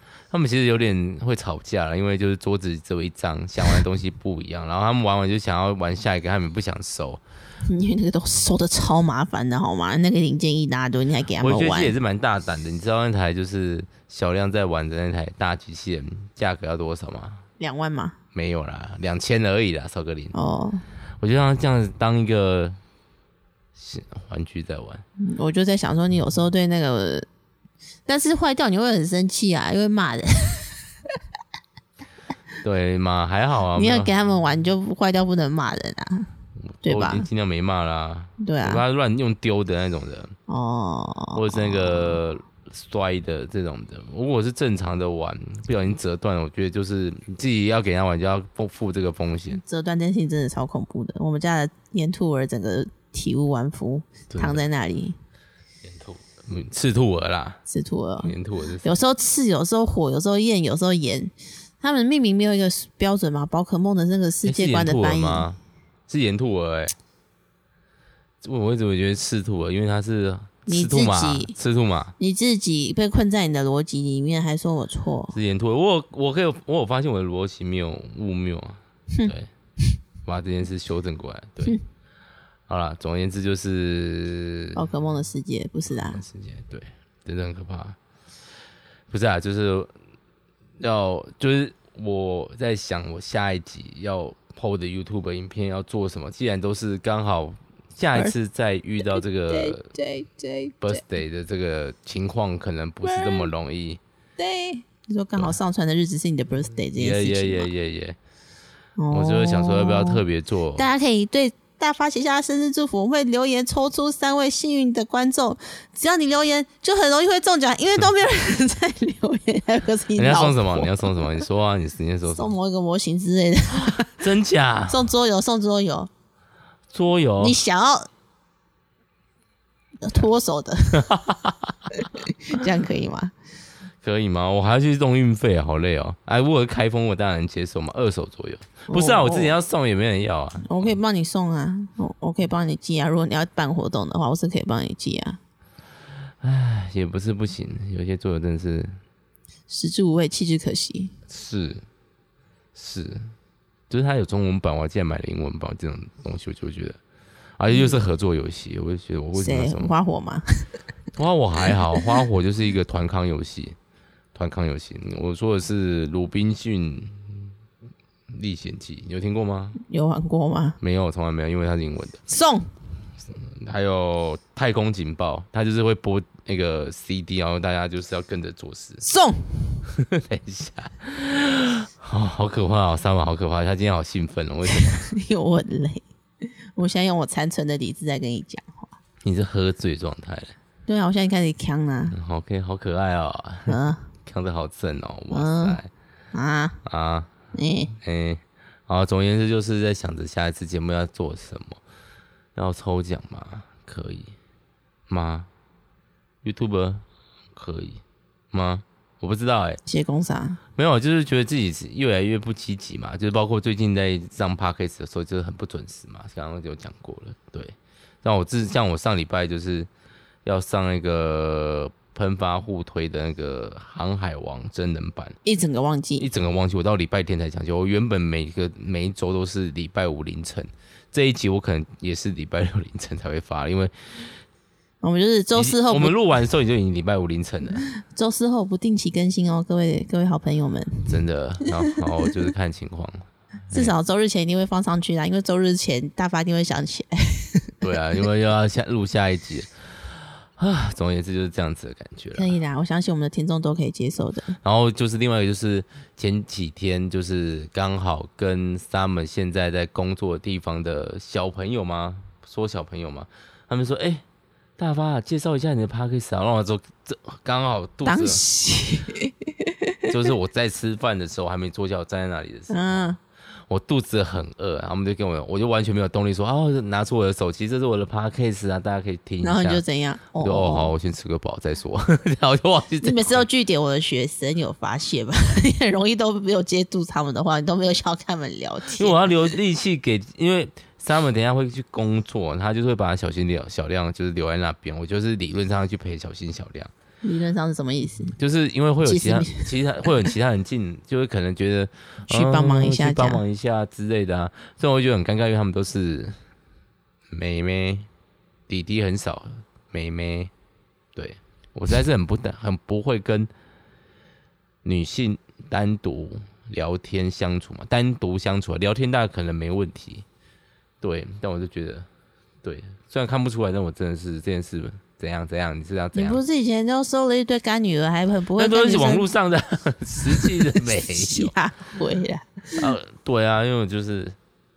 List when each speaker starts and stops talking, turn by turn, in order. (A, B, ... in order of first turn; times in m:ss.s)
0:00.3-0:07.2 A
0:07.6-0:11.9 B
0:11.4-0:17.4 A
0:17.6-0:18.2 B
0:18.3-0:20.4 A
0:20.3-0:20.8 B
0:21.2-0:22.8 A
0:23.8-0:25.0 A
0:25.2-0:27.3 B
0:28.1-0:30.8 B
0:32.6-0:34.1 A
0:33.7-0:36.3 B
0:36.6-0:40.4 A
0:36.8-0:37.3 B
0:38.4-0:38.8 B
0:40.5-0:42.2 B
0:41.4-0:49.6 A
0:49.5-0:55.2 B
0:54.3-0:54.6 A
0:55.8-0:57.6 A
0:57.7-1:05.5 B
0:58.2-0:59.0 A
1:04.4-1:07.0 A
1:08.4-1:12.2 A
1:10.7-1:11.5 B
1:12.2-1:15.4 B
1:15.3-1:19.5 A
1:20.3-1:21.8 A
1:22.7-1:24.8 A
1:24.8-1:26.2 B
1:25.9-1:28.0 A
1:29.1-1:29.9 A
1:30.8-1:39.9 A
1:39.1-1:41.0 B
1:40.8-1:44.0 A
1:43.0-1:43.5 B
1:44.4-1:47.7 B
1:47.0-1:48.2 A
1:49.0-1:50.2 B
1:49.1-1:50.9 A
1:50.8-2:01.4 B
2:00.2-2:02.5 A
2:02.3-2:04.1 B
2:03.8-2:05.1 A
2:04.9-2:06.1 B
2:06.9-2:07.6 A
2:07.4-2:08.1 B
2:10.0-2:11.1 B
2:10.9-2:11.8 A
2:11.9-2:13.3 B
2:14.0-2:20.9 A
2:18.9-2:19.6 B
2:20.6-2:25.4 B
2:26.4-2:29.0 A
2:29.7-2:31.1 B
2:31.3-2:31.8 A
2:32.8-2:33.3 A
2:33.9-2:37.0 A
2:37.6-2:39.9 A
2:37.7-2:38.0 B
2:39.4-2:40.4 B
2:41.2-2:43.8 A
2:44.4-2:47.4 A
2:48.3-2:49.8 A
2:49.8-2:50.8 B
2:50.8-2:52.2 A
2:52.3-2:52.7 B
2:53.3-2:59.0 A
2:59.0-2:59.8 B
2:59.9-3:05.1 A
3:04.7-3:06.0 B
3:06.8-3:08.9 B
3:09.2-3:10.6 A
3:10.9-3:12.2 B
3:12.1-3:15.9 A
3:13.7-3:14.1 B
3:15.3-3:15.8 B
3:16.3-3:16.8 B
3:16.8-3:17.3 A
3:17.5-3:17.9 B
3:18.0-3:21.8 A
3:22.6-3:24.4 A
3:25.1-3:25.5 A
3:26.4-3:27.0 A
3:27.6-3:29.8 A
3:29.9-3:30.6 B
3:30.8-3:39.9 A
3:40.4-3:45.4 A
3:45.4-3:46.3 B
3:46.2-3:54.4 A
3:55.0-3:56.2 B
3:55.6-3:57.9 A
3:58.0-4:01.1 B
4:01.1-4:03.9 A
4:03.7-4:07.7 B
4:07.8-4:12.6 A
4:12.4-4:14.6 B
4:14.6-4:24.2 A
4:24.8-4:28.4 A
4:28.0-4:30.1 B
4:30.1-4:33.1 A
4:32.7-4:33.2 B
4:33.7-4:39.8 A
4:39.4-4:40.9 B
4:40.4-4:43.5 A
4:43.0-4:49.2 B
4:49.0-4:56.9 A
4:57.2-4:58.4 B
4:58.4-5:06.4 A
4:59.0-5:00.3 B
5:02.3-5:03.4 B
5:07.3-5:08.1 A
5:08.7-5:10.5 A
5:11.2-5:13.5 A
5:14.8-5:20.2 A
5:21.0-5:22.1 A
5:22.6-5:26.4 A
5:26.1-5:29.3 B
5:28.6-5:31.5 A
5:30.3-5:32.8 B
5:32.8-5:34.4 A